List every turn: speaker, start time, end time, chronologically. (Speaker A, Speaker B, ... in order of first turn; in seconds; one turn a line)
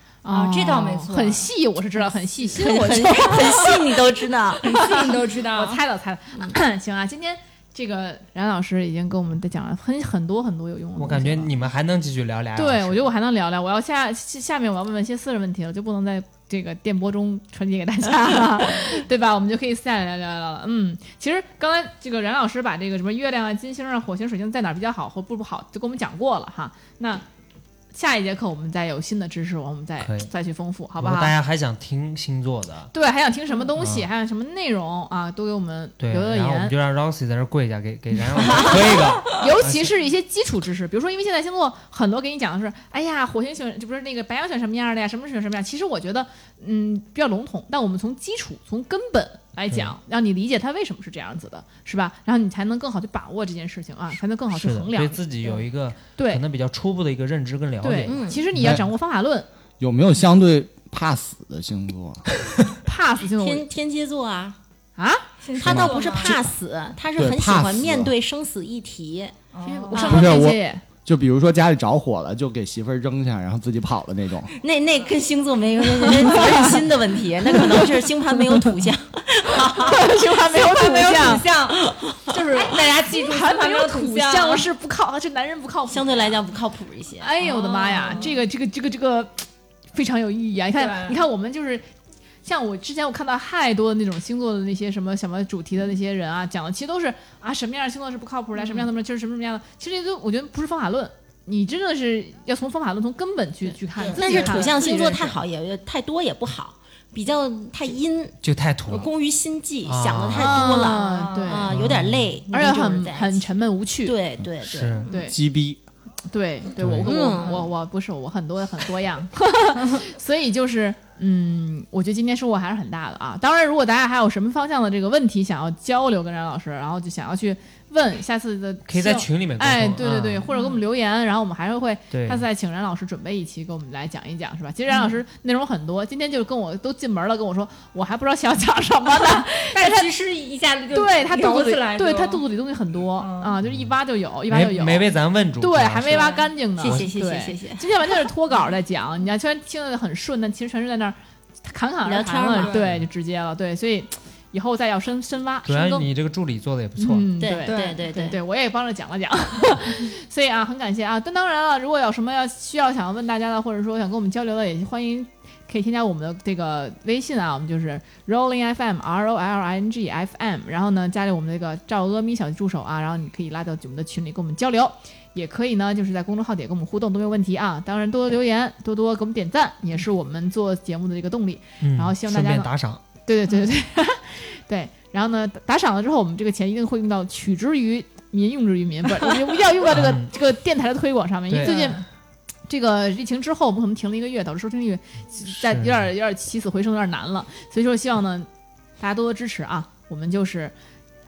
Speaker A: 0.2-4.0
Speaker B: 0.3-1.5
Speaker C: 2.4-4.8
Speaker B: 4.6-5.8
Speaker A: 4.6-11.5
Speaker D: 11.0-13.1
Speaker A: 12.6-27.2
Speaker A: 27.9-31.3
Speaker D: 30.0-30.3
Speaker D: 31.0-32.9
Speaker A: 32.9-36.7
Speaker D: 33.8-34.1
Speaker D: 36.0-39.9
Speaker A: 38.4-55.6
Speaker C: 38.5-38.8
Speaker D: 49.7-49.9
Speaker D: 54.5-58.7
Speaker A: 56.1-56.4
Speaker A: 57.8-59.5
Speaker C: 58.0-58.5
Speaker E: 59.8-62.2
Speaker A: 62.8-63.7
Speaker C: 63.4-64.6
Speaker A: 65.0-65.2
Speaker B: 65.4-66.4
Speaker C: 65.6-70.4
Speaker E: 65.6-66.5
Speaker E: 67.2-68.1
Speaker B: 69.5-70.2
Speaker A: 69.9-70.8
Speaker E: 70.0-74.5
Speaker C: 74.5-80.2
Speaker A: 76.4-76.7
Speaker A: 79.6-81.5
Speaker B: 80.4-84.7
Speaker C: 81.7-82.4
Speaker A: 82.5-86.4
Speaker C: 85.9-87.3
Speaker A: 87.2-91.9
Speaker B: 87.4-88.4
Speaker B: 90.8-91.2
Speaker A: 92.4-105.4
Speaker C: 104.0-113.5
Speaker B: 104.0-104.8
Speaker D: 108.4-109.1
Speaker D: 109.8-110.8
Speaker A: 110.3-111.9
Speaker B: 110.9-111.7
Speaker D: 111.7-112.3
Speaker A: 112.5-114.2
Speaker C: 114.0-115.3
Speaker D: 114.6-115.1
Speaker A: 115.1-115.4
Speaker E: 115.3-115.8
Speaker A: 116.3-140.1
Speaker D: 116.8-117.1
Speaker C: 117.0-117.7
Speaker D: 128.9-130.5
Speaker B: 130.5-130.8
Speaker D: 132.1-132.4
Speaker B: 139.7-142.4
Speaker A: 140.9-156.1
Speaker B: 143.2-143.6
Speaker D: 144.5-147.1
Speaker B: 146.1-146.5
Speaker C: 146.8-148.3
Speaker C: 152.0-152.8
Speaker B: 152.6-152.9
Speaker D: 152.8-153.1
Speaker D: 155.6-157.3
Speaker A: 157.0-192.0
Speaker C: 157.4-158.4
Speaker B: 157.7-158.0
Speaker D: 181.8-183.0
Speaker D: 189.8-190.3
Speaker D: 191.5-191.9
Speaker B: 191.6-191.9
Speaker A: 192.7-198.5
Speaker D: 195.4-196.0
Speaker A: 199.0-200.7